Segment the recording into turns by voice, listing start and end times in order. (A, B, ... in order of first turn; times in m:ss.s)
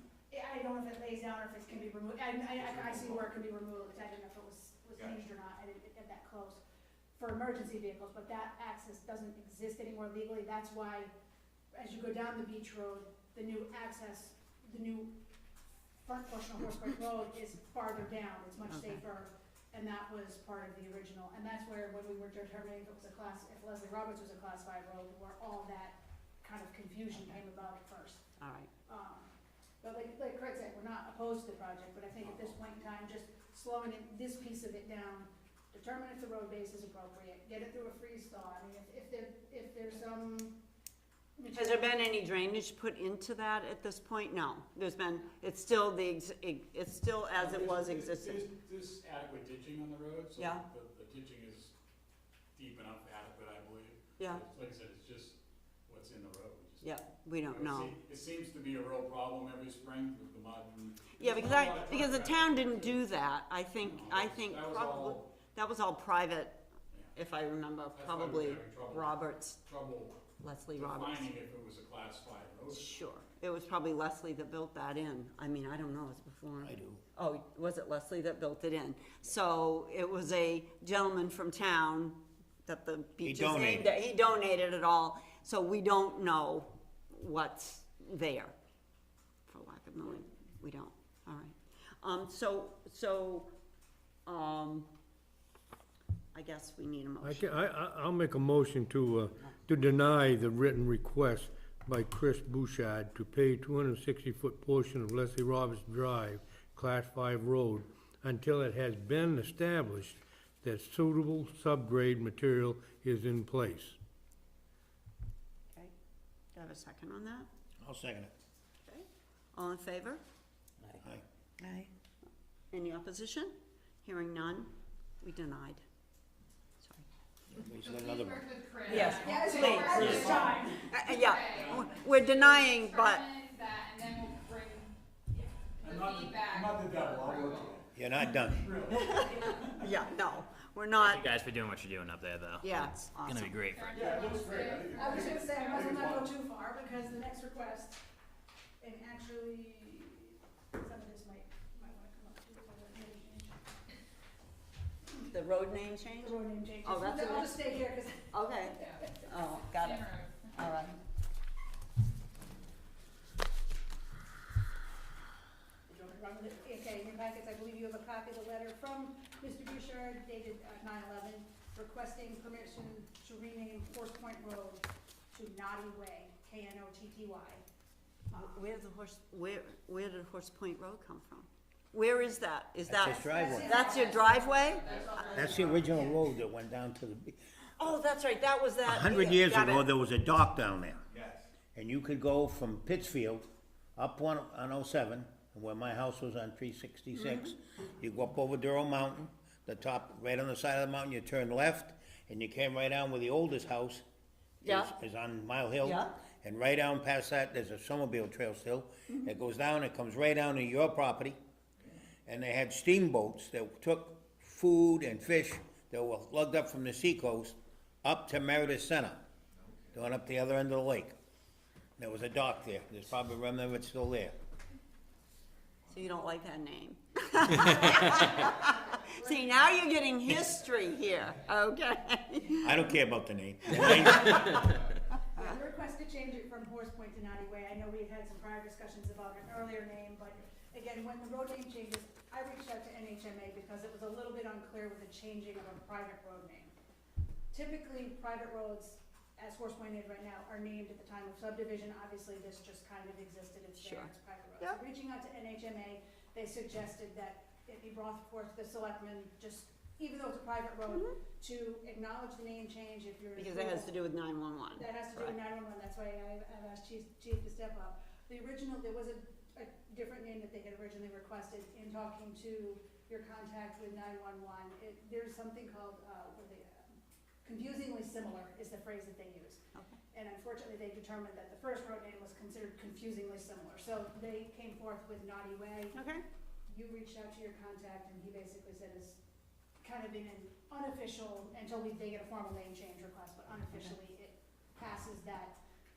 0:00.3-0:06.6 A
0:07.1-0:11.1 A
0:11.7-0:15.1 A
0:16.0-0:28.2 A
0:18.6-0:19.0 B
0:28.4-0:28.7 B
0:28.8-0:40.6 A
0:41.4-0:42.1 A
0:41.5-0:48.4 B
0:47.3-0:51.7 C
0:50.4-0:50.6 B
0:52.5-0:56.9 C
0:54.2-0:54.4 B
0:56.8-0:58.0 B
0:57.4-1:03.0 C
1:01.1-1:09.6 B
1:03.8-1:05.3 C
1:07.9-1:10.2 C
1:10.4-1:11.3 B
1:10.7-1:13.0 C
1:12.7-1:28.5 B
1:16.6-1:17.0 D
1:23.2-1:23.9 D
1:29.5-1:33.5 B
1:34.2-1:34.9 B
1:36.3-1:37.4 B
1:37.2-1:54.0 E
1:56.5-1:57.5 B
1:57.8-1:58.3 D
1:58.8-2:00.2 B
2:02.7-2:05.8 B
2:06.8-2:07.0 B
2:07.5-2:09.2 D
2:07.8-2:10.3 F
2:08.9-2:13.2 B
2:09.2-2:10.9 A
2:10.1-2:10.7 C
2:11.0-2:14.9 F
2:11.4-2:11.9 C
2:15.8-2:20.0 C
2:15.8-2:17.8 F
2:17.9-2:18.7 D
2:18.9-2:21.3 B
2:21.0-2:23.9 G
2:22.6-2:23.6 B
2:23.7-2:25.9 F
2:23.9-2:26.3 C
2:25.0-2:28.0 A
2:28.8-2:33.7 A
2:35.3-2:37.8 B
2:36.1-2:39.1 A
2:38.3-2:41.0 B
2:38.8-2:39.0 F
2:39.7-2:40.5 F
2:45.9-2:57.6 A
2:58.3-3:04.9 B
3:02.9-3:03.8 D
3:03.3-3:06.2 A
3:03.6-3:05.8 F
3:04.8-3:07.4 D
3:07.8-3:09.9 B
3:08.8-3:11.0 D
3:11.7-3:24.0 D
3:17.2-3:17.5 B
3:24.6-3:31.4 D
3:24.6-3:24.9 B
3:25.8-3:26.2 B
3:32.2-3:39.2 D
3:39.9-3:41.2 D
3:42.0-3:44.4 D
3:45.9-3:52.8 B
3:48.0-3:48.2 G
3:48.3-3:48.8 A
3:52.6-3:54.6 D
3:53.7-3:54.6 B
3:54.2-3:54.8 A
3:55.4-4:06.7 A
4:07.5-4:24.0 A
4:13.8-4:14.8 B
4:20.9-4:21.2 B
4:23.4-4:25.3 B
4:24.7-4:46.0 A
4:45.9-4:46.2 B
4:46.7-4:49.2 A
4:49.8-4:55.6 A